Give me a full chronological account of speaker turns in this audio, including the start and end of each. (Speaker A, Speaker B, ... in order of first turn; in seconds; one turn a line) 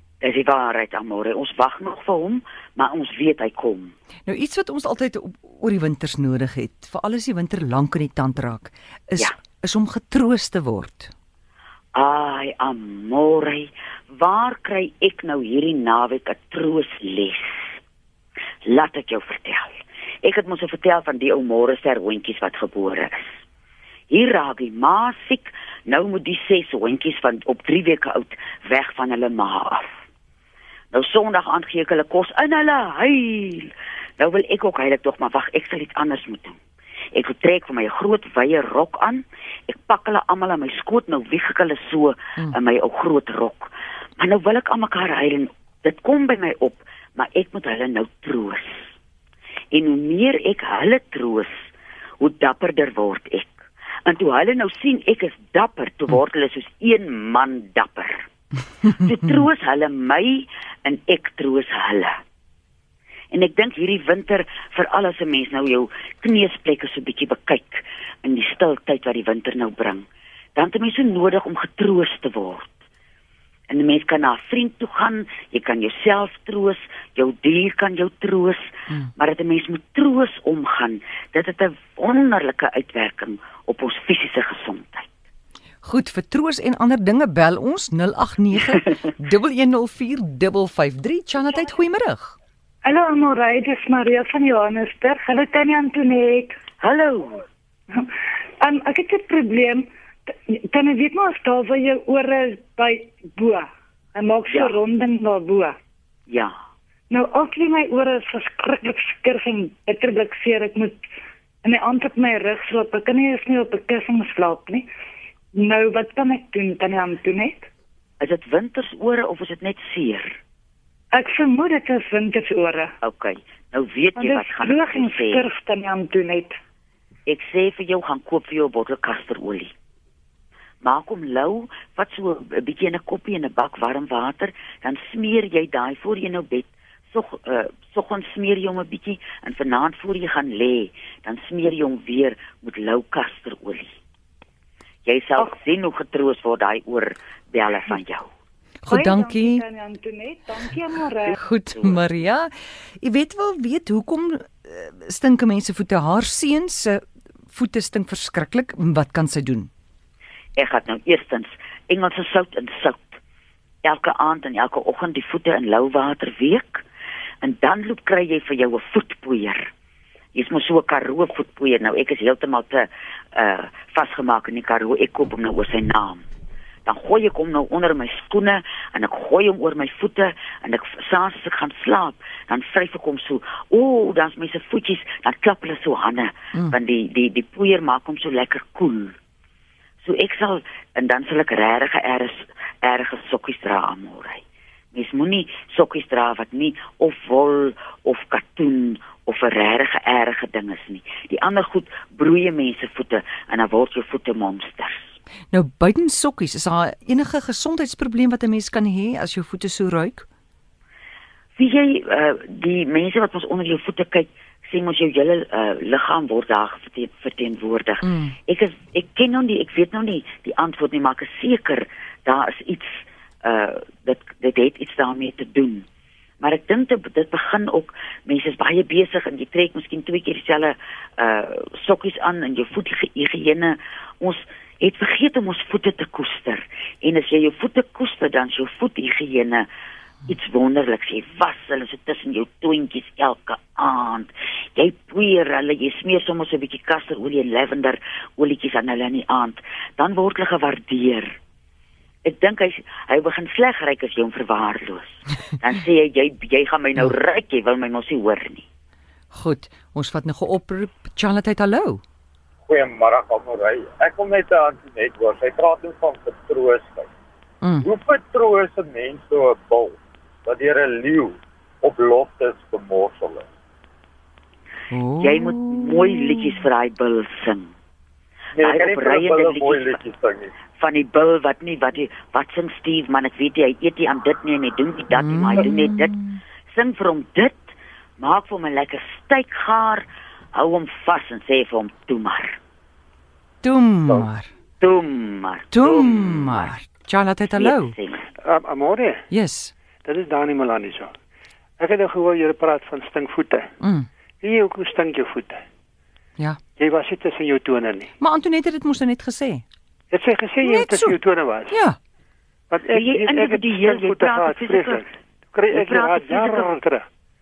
Speaker A: 0.2-3.9
Speaker B: 4.2-11.1
Speaker A: 11.9-17.8
Speaker A: 18.6-23.3
Speaker A: 24.1-30.0
Speaker A: 30.9-36.6
Speaker A: 37.1-48.9
Speaker A: 49.7-51.6
Speaker A: 52.2-58.3
Speaker A: 58.8-62.1
Speaker A: 63.3-72.7
Speaker A: 73.7-85.1
Speaker B: 85.8-92.3
Speaker C: 92.8-96.5
Speaker A: 96.8-97.4
Speaker C: 98.6-105.8
Speaker A: 104.5-104.8
Speaker A: 106.3-106.5
Speaker C: 107.1-111.0
Speaker C: 111.6-114.8
Speaker C: 115.5-117.7
Speaker A: 118.2-120.4
Speaker C: 121.1-122.9
Speaker A: 123.0-125.5
Speaker C: 124.2-126.5
Speaker A: 127.2-129.7
Speaker A: 130.8-143.9
Speaker A: 145.0-148.3
Speaker B: 148.8-149.6
Speaker C: 148.9-151.4
Speaker B: 151.3-157.0
Speaker A: 151.7-152.0
Speaker B: 157.5-159.7
Speaker A: 160.6-163.2
Speaker A: 163.8-166.8
Speaker A: 167.4-169.7
Speaker A: 170.3-176.2
Speaker A: 176.8-189.2
Speaker A: 190.0-194.4
Speaker A: 194.9-205.2
Speaker B: 205.5-210.3
Speaker A: 211.6-225.8
Speaker B: 218.0-218.3
Speaker A: 226.4-239.7
Speaker A: 240.2-251.3
Speaker A: 252.2-258.6
Speaker B: 259.3-262.0
Speaker D: 262.7-267.1
Speaker B: 267.6-267.9
Speaker D: 267.8-273.4
Speaker B: 274.9-276.5
Speaker A: 275.2-277.7
Speaker D: 278.5-280.5
Speaker A: 278.6-280.0
Speaker A: 280.8-286.2
Speaker B: 285.1-286.4
Speaker A: 286.7-292.6
Speaker B: 293.6-294.5
Speaker A: 294.8-296.6
Speaker B: 295.7-297.9
Speaker A: 297.6-298.2
Speaker E: 298.4-299.2
Speaker B: 299.3-299.7
Speaker E: 300.0-301.1
Speaker E: 301.8-303.7
Speaker B: 303.8-304.1
Speaker E: 304.4-305.6
Speaker E: 306.8-308.1
Speaker B: 308.2-309.6
Speaker E: 310.1-311.8
Speaker B: 310.6-312.0
Speaker E: 312.7-317.1
Speaker A: 312.9-315.0
Speaker A: 315.7-316.7